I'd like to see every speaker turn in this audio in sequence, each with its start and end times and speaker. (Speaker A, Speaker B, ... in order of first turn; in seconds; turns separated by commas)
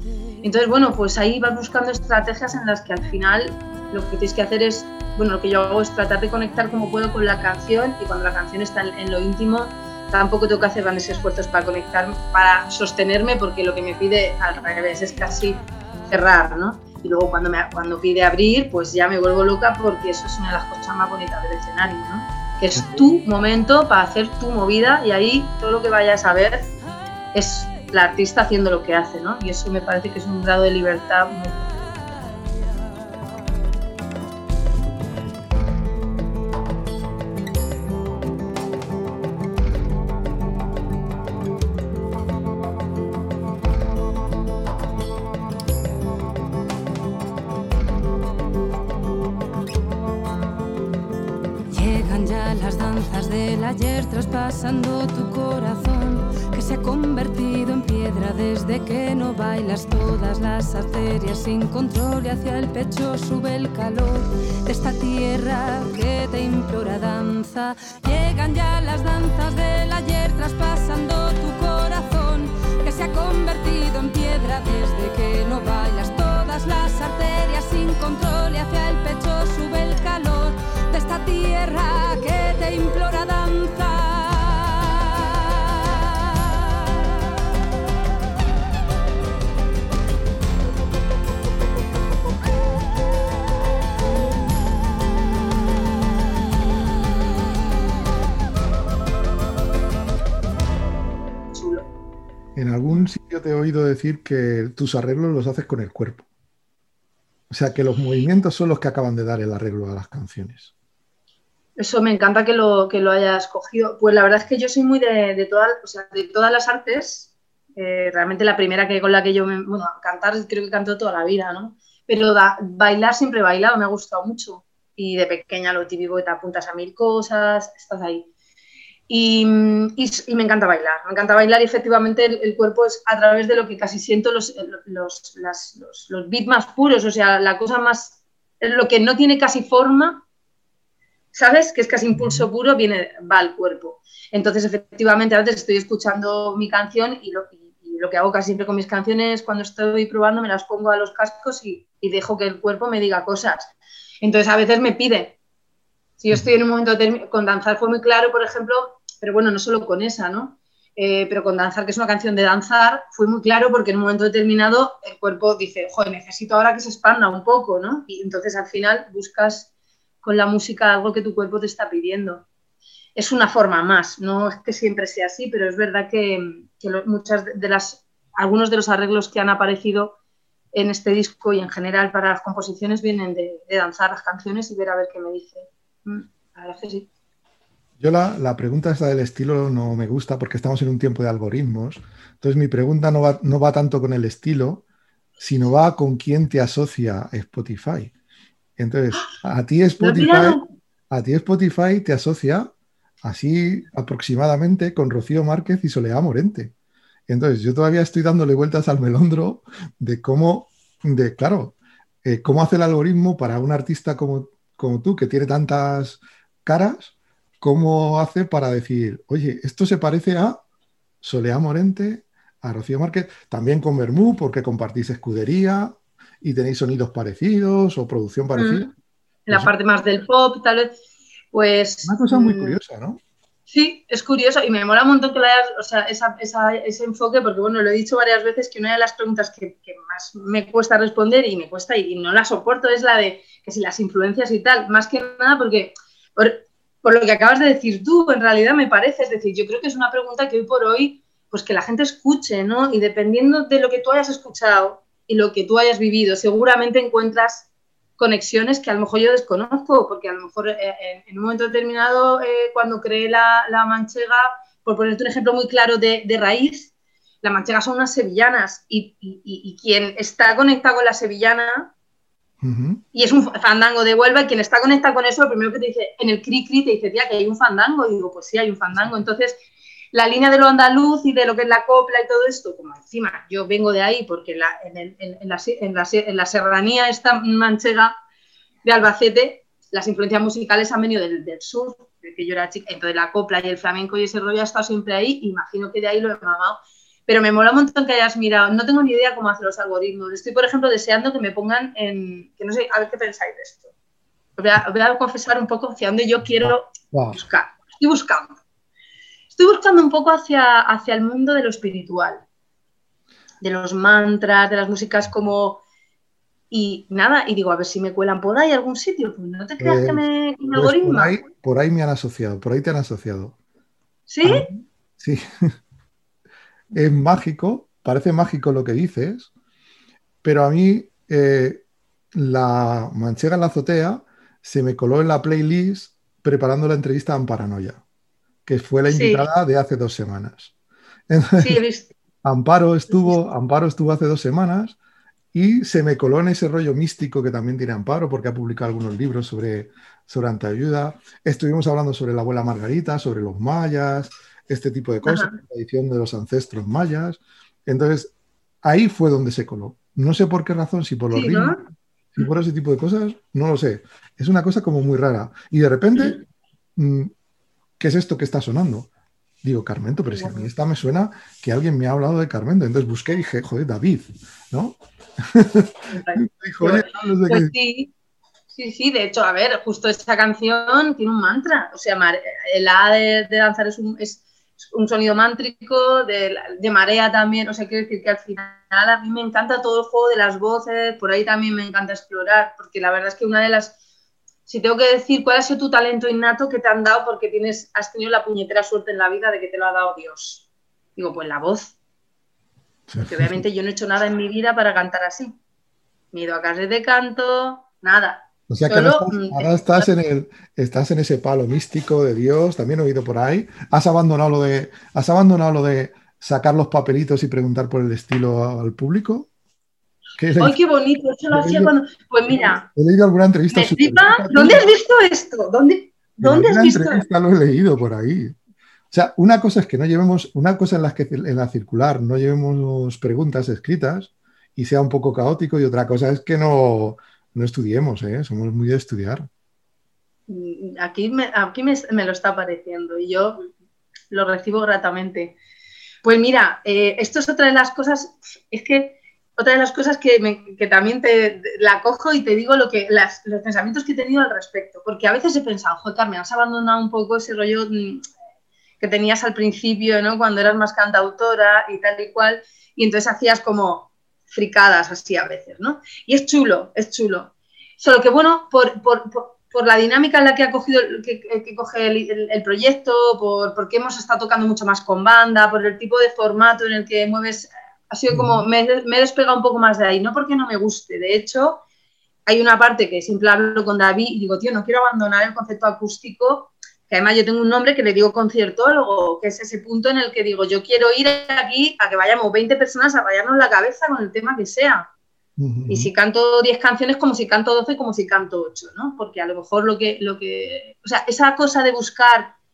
Speaker A: 0.4-26.7, Speaker A: 27.3-31.7, Speaker B: 51.7-85.7, Speaker A: 101.5-101.9, Speaker C: 102.6-106.2, Speaker C: 107.5-110.7, Speaker A: 111.8-128.3, Speaker A: 129.1-140.2, Speaker A: 141.3-155.4, Speaker C: 142.2-142.4, Speaker A: 156.2-169.7, Speaker A: 170.2-172.5, Speaker A: 173.2-180.2, Speaker A: 180.7-187.1, Speaker C: 188.0-194.8, Speaker C: 195.4-198.1, Speaker C: 198.8-200.6, Speaker A: 200.0-200.7, Speaker C: 201.1-202.7, Speaker C: 203.2-206.7, Speaker C: 207.3-220.6, Speaker C: 221.2-228.9, Speaker A: 228.5-228.9, Speaker A: 229.5-231.0, Speaker A: 231.5-232.8, Speaker C: 232.1-233.2, Speaker A: 233.7-266.9, Speaker A: 267.4-271.9, Speaker C: 272.6-273.0, Speaker A: 273.1-279.6, Speaker A: 280.1-288.2, Speaker A: 288.9-303.9, Speaker A: 304.6-308.6, Speaker C: 306.6-307.4, Speaker A: 309.5-312.4, Speaker A: 313.6-315.8, Speaker A: 316.7-321.4, Speaker C: 319.8-323.6, Speaker A: 324.3-324.7, Speaker C: 324.4-325.5, Speaker C: 326.9-329.5, Speaker C: 330.4-331.8, Speaker C: 332.3-338.0, Speaker C: 338.7-340.7, Speaker A: 339.1-339.5, Speaker C: 341.3-341.8, Speaker A: 341.6-342.1, Speaker C: 342.4-345.0, Speaker A: 343.1-343.4, Speaker C: 345.5-358.3, Speaker A: 355.2-355.6, Speaker C: 358.8-361.8, Speaker A: 361.3-361.8, Speaker C: 362.4-366.4, Speaker C: 367.0-367.3, Speaker C: 368.0-369.1, Speaker C: 369.6-377.7, Speaker A: 370.3-370.7, Speaker A: 376.1-378.1, Speaker A: 378.7-394.0, Speaker A: 394.7-402.0, Speaker C: 403.1-403.6, Speaker A: 403.2-405.6, Speaker A: 406.3-410.1, Speaker C: 408.7-419.5, Speaker C: 420.4-420.8, Speaker A: 420.6-422.9, Speaker C: 421.5-421.9, Speaker C: 422.8-424.9, Speaker A: 423.7-427.2, Speaker C: 426.4-428.6, Speaker C: 429.1-439.5, Speaker A: 440.5-443.7, Speaker A: 444.3-445.6, Speaker A: 446.2-458.3, Speaker A: 459.0-481.8, Speaker C: 478.3-478.7, Speaker A: 482.5-495.1, Speaker C: 495.6-496.1, Speaker A: 495.9-502.5